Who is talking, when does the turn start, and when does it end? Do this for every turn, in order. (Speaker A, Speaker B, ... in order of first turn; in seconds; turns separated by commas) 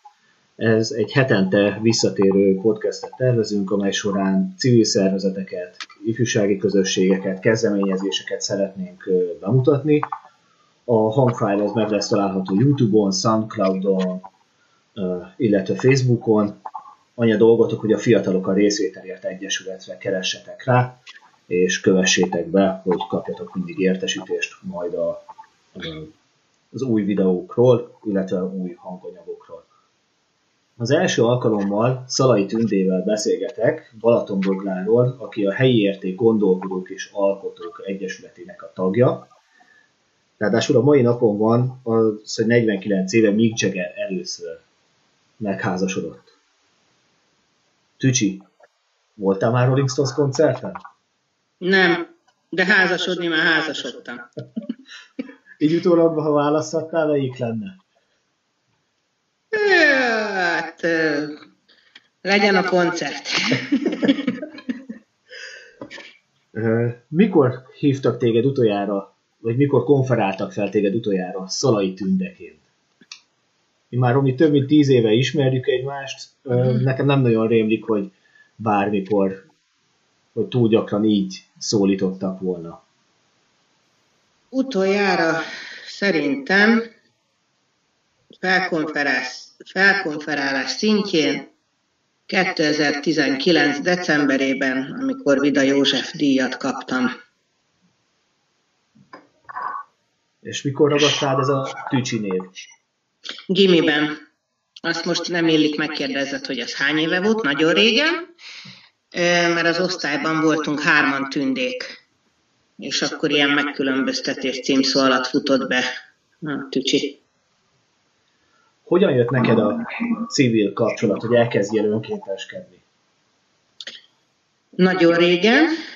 Speaker A: 0.6-10.1, Speaker A: 10.9-14.2, Speaker A: 14.9-16.6, Speaker A: 17.1-21.0, Speaker A: 21.5-25.2, Speaker A: 25.7-26.1, Speaker A: 26.7-29.7, Speaker A: 30.8-39.3, Speaker A: 40.4-44.6, Speaker A: 45.4-46.3, Speaker A: 48.0-48.4, Speaker A: 49.1-50.8, Speaker B: 51.6-54.2, Speaker A: 55.6-57.8, Speaker B: 59.5-61.4, Speaker B: 62.2-64.4, Speaker A: 66.5-72.6, Speaker A: 73.9-79.5, Speaker A: 80.3-82.8, Speaker B: 84.5-86.9, Speaker B: 88.4-91.5, Speaker B: 92.3-97.1, Speaker A: 100.4-102.5, Speaker B: 103.5-104.1, Speaker B: 104.8-108.3, Speaker B: 109.1-112.0, Speaker B: 112.8-115.9, Speaker B: 116.4-117.2, Speaker A: 118.8-122.8, Speaker B: 124.8-125.7